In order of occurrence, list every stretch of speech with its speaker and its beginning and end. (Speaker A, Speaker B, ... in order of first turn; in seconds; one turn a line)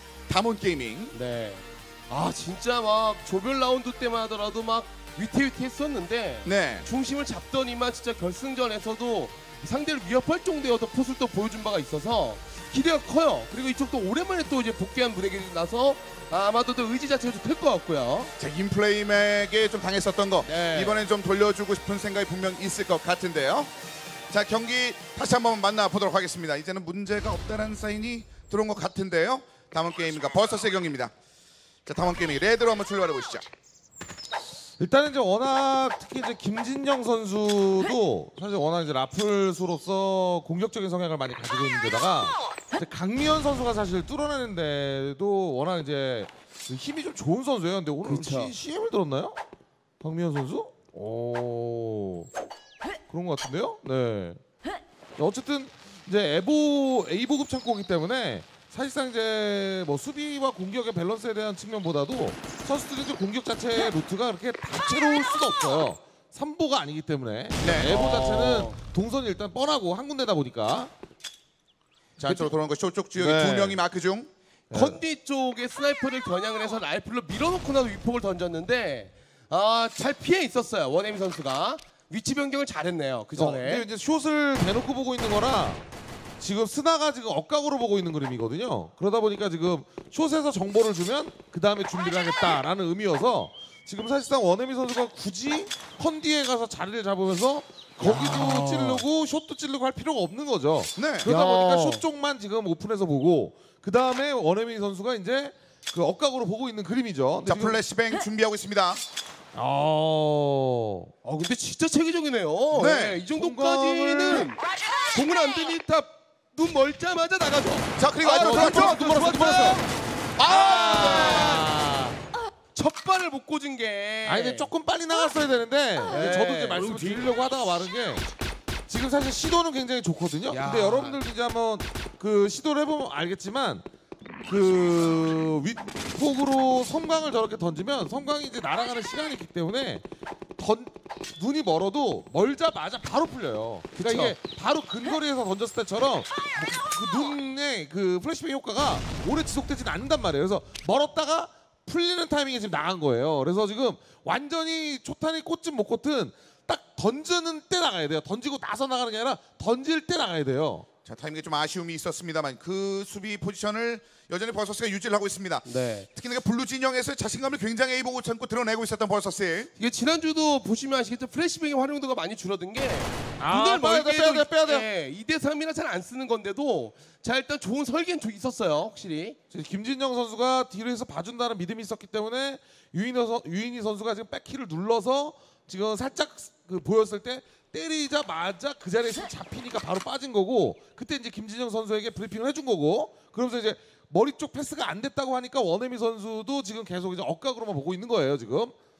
Speaker A: 0.3-1.1
Speaker B: 1.1-18.3
Speaker A: 6.4-6.9
Speaker A: 18.4-23.7
Speaker B: 20.4-21.0
Speaker A: 24.3-31.1
Speaker A: 31.9-33.5
Speaker C: 34.8-49.4
Speaker B: 48.0-48.5
Speaker C: 50.0-52.3
Speaker C: 53.1-54.4
Speaker C: 55.2-70.9
Speaker A: 67.6-67.9
Speaker B: 67.8-68.8
Speaker A: 72.2-74.3
Speaker C: 72.2-72.5
Speaker C: 73.1-73.8
Speaker C: 74.7-75.0
Speaker B: 74.7-83.8
Speaker C: 83.3-85.8
Speaker C: 86.4-107.8
Speaker B: 98.0-99.0
Speaker A: 101.0-101.3
Speaker B: 101.2-102.0
Speaker A: 107.5-109.0
Speaker C: 109.5-111.1
Speaker B: 111.2-114.6
Speaker A: 112.7-113.2
Speaker C: 113.3-114.5
Speaker B: 115.1-119.9
Speaker A: 118.0-119.0
Speaker C: 118.4-119.8
Speaker A: 120.4-121.7
Speaker B: 120.4-122.1
Speaker C: 120.8-121.8
Speaker B: 122.7-124.7
Speaker C: 124.2-128.2
Speaker B: 126.1-127.3
Speaker C: 128.9-133.8
Speaker B: 130.5-131.2
Speaker C: 134.5-140.0
Speaker C: 140.6-160.8
Speaker B: 144.0-144.3
Speaker A: 161.0-169.7
Speaker B: 165.6-166.1
Speaker B: 169.8-179.4
Speaker C: 173.4-174.8
Speaker C: 179.5-198.7